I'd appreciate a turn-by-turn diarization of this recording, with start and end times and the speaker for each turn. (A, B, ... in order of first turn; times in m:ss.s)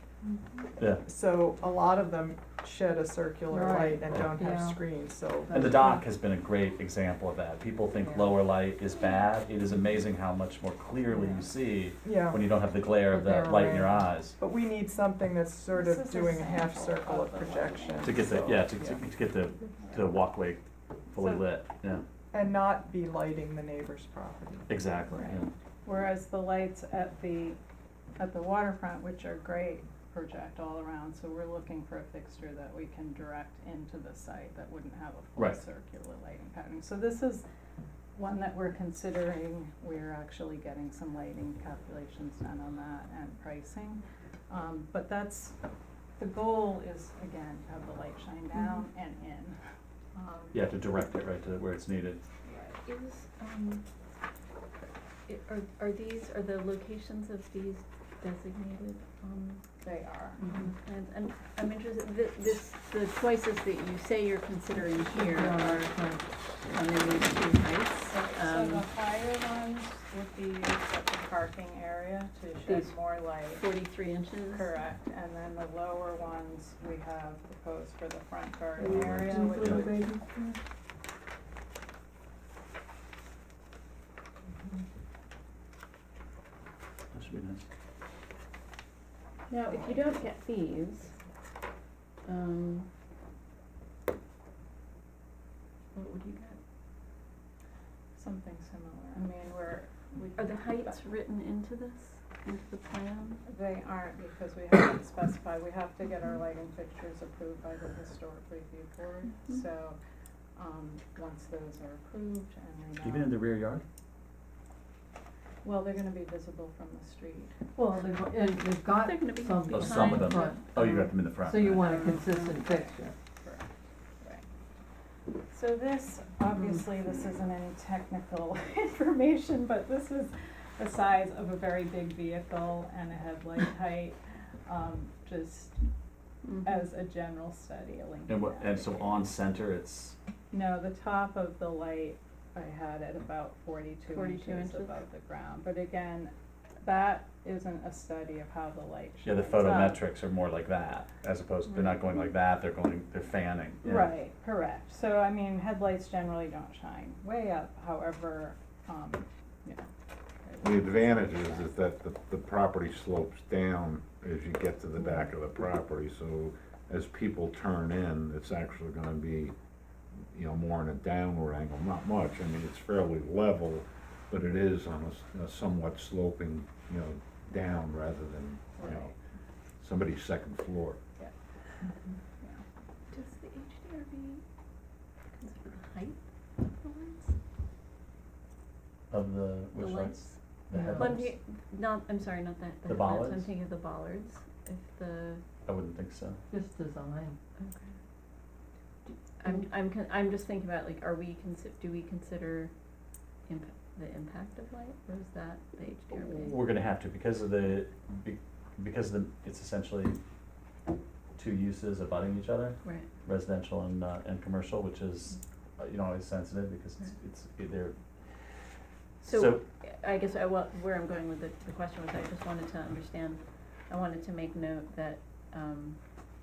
0:00.2-0:00.6 A
0:00.8-0:01.0 B
0:01.0-0:06.0 C
0:03.5-0:04.8 D
0:05.5-0:14.4 B
0:12.0-0:12.4 C
0:13.1-0:14.0 D
0:14.4-0:19.0 C
0:15.7-0:18.4 E
0:18.0-0:22.0 B
0:19.8-0:20.2 E
0:22.3-0:25.3 C
0:24.7-0:25.5 B
0:25.2-0:27.6 E
0:28.2-0:37.4 E
0:38.1-0:45.6 E
0:46.2-0:49.6 E
0:50.1-0:50.7 E
0:50.5-0:52.2 B
0:52.4-0:52.7 E
0:52.8-0:53.8 A
0:55.3-0:59.7 A
0:59.8-1:00.4 E
1:00.4-1:05.9 A
1:05.1-1:06.2 D
1:06.7-1:08.8 A
1:08.1-1:13.7 E
1:13.6-1:14.7 A
1:14.5-1:20.0 E
1:18.8-1:20.6 C
1:19.6-1:19.9 B
1:27.1-1:27.6 B
1:29.5-1:31.1 A
1:32.2-1:32.9 A
1:35.9-1:36.6 A
1:38.1-1:41.0 E
1:40.4-1:43.4 A
1:43.5-1:50.0 E
1:50.5-1:53.5 E
1:53.0-1:53.8 B
1:55.6-1:57.5 E
1:57.8-2:03.1 D
1:58.9-2:01.0 A
1:59.7-2:01.9 B
2:01.9-2:03.7 E
2:05.5-2:15.8 E
2:16.4-2:16.8 A
2:16.6-2:19.2 E
2:18.3-2:20.2 B
2:20.5-2:26.3 E
2:24.1-2:25.0 A
2:26.8-2:30.0 E
2:29.2-2:34.1 B
2:31.7-2:32.1 A
2:33.8-2:39.9 E
2:40.4-2:41.8 E
2:40.6-2:49.5 F
2:50.3-2:59.1 F
2:58.8-2:59.1 E
2:59.8-3:01.0 F
3:03.1-3:04.4 A
3:05.3-3:07.4 A
3:09.1-3:11.3 B
3:09.8-3:15.4 A
3:10.7-3:11.2 D
3:12.8-3:13.5 B
3:15.6-3:16.4 B
3:16.5-3:17.4 D
3:17.6-3:17.9 A
3:19.1-3:22.7 A
3:23.5-3:26.6 A
3:26.1-3:30.2 B
3:31.4-3:38.0 B
3:32.8-3:33.1 A
3:39.2-3:39.6 B
3:39.2-3:46.0 A